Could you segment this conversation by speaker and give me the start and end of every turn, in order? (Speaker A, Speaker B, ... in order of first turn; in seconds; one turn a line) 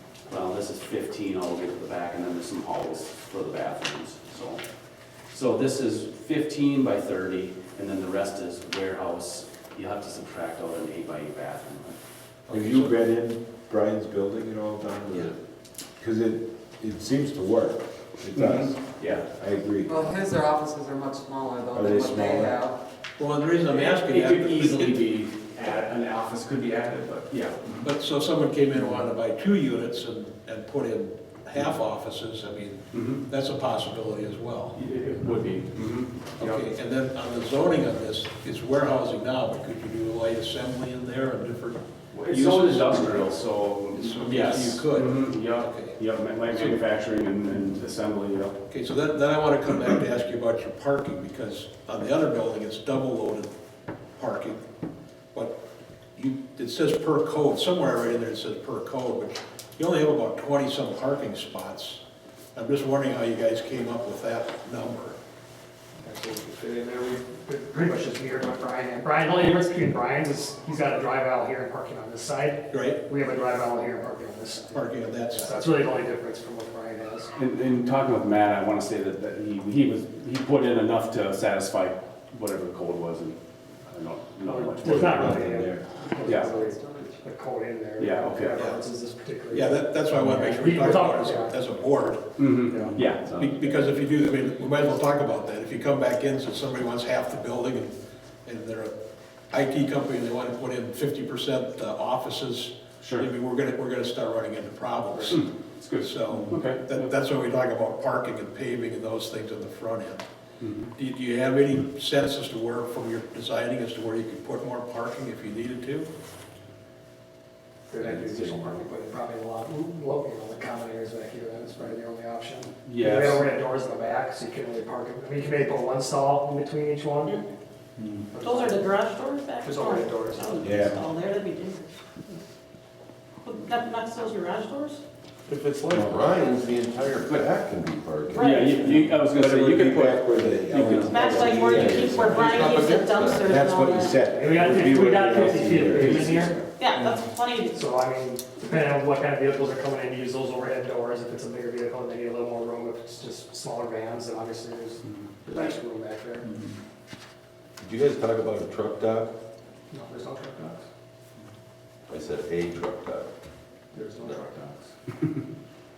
Speaker A: 0.3-4.6
Speaker A: 5.3-11.9
Speaker B: 12.5-12.9
Speaker C: 12.5-15.3
Speaker C: 16.0-18.8
Speaker A: 18.3-19.3
Speaker C: 19.3-20.0
Speaker D: 19.9-22.8
Speaker C: 21.7-22.6
Speaker B: 23.2-25.0
Speaker A: 23.6-27.9
Speaker B: 27.8-34.8
Speaker A: 28.7-29.0
Speaker A: 32.9-33.2
Speaker A: 34.7-36.6
Speaker B: 36.4-43.3
Speaker A: 42.1-48.5
Speaker B: 43.9-46.0
Speaker B: 46.5-46.8
Speaker B: 48.7-53.5
Speaker B: 54.2-54.6
Speaker B: 56.2-62.0
Speaker B: 62.5-65.2
Speaker E: 66.0-77.3
Speaker B: 72.7-73.0
Speaker B: 74.7-75.6
Speaker A: 77.3-83.3
Speaker A: 83.9-85.5
Speaker E: 84.4-91.7
Speaker C: 84.9-85.8
Speaker A: 86.2-86.5
Speaker A: 88.0-88.5
Speaker B: 88.6-88.8
Speaker B: 89.5-92.2
Speaker A: 92.4-93.9
Speaker E: 92.7-93.0
Speaker B: 93.3-97.9
Speaker B: 98.5-98.9
Speaker B: 99.5-105.4
Speaker A: 103.0-103.3
Speaker A: 105.2-107.0
Speaker B: 105.9-110.2
Speaker A: 110.6-110.9
Speaker B: 110.9-116.1
Speaker E: 117.9-127.4
Speaker A: 118.0-118.8
Speaker A: 122.8-123.5
Speaker A: 128.0-128.3
Speaker E: 128.3-128.9
Speaker F: 128.4-132.0
Speaker E: 129.6-130.6
Speaker C: 130.6-131.0
Speaker F: 133.4-135.0
Speaker G: 135.5-139.1
Speaker C: 135.9-136.4
Speaker A: 137.2-137.5
Speaker F: 138.3-138.9
Speaker A: 138.4-141.9
Speaker C: 138.9-146.7
Speaker F: 140.7-144.2
Speaker G: 141.6-143.5
Speaker E: 144.3-146.6
Speaker A: 145.9-146.6
Speaker F: 146.8-147.8
Speaker E: 147.7-156.5
Speaker A: 156.5-156.7
Speaker G: 157.8-159.3
Speaker E: 159.9-160.9
Speaker G: 162.1-163.3
Speaker E: 163.9-164.9
Speaker G: 164.2-164.5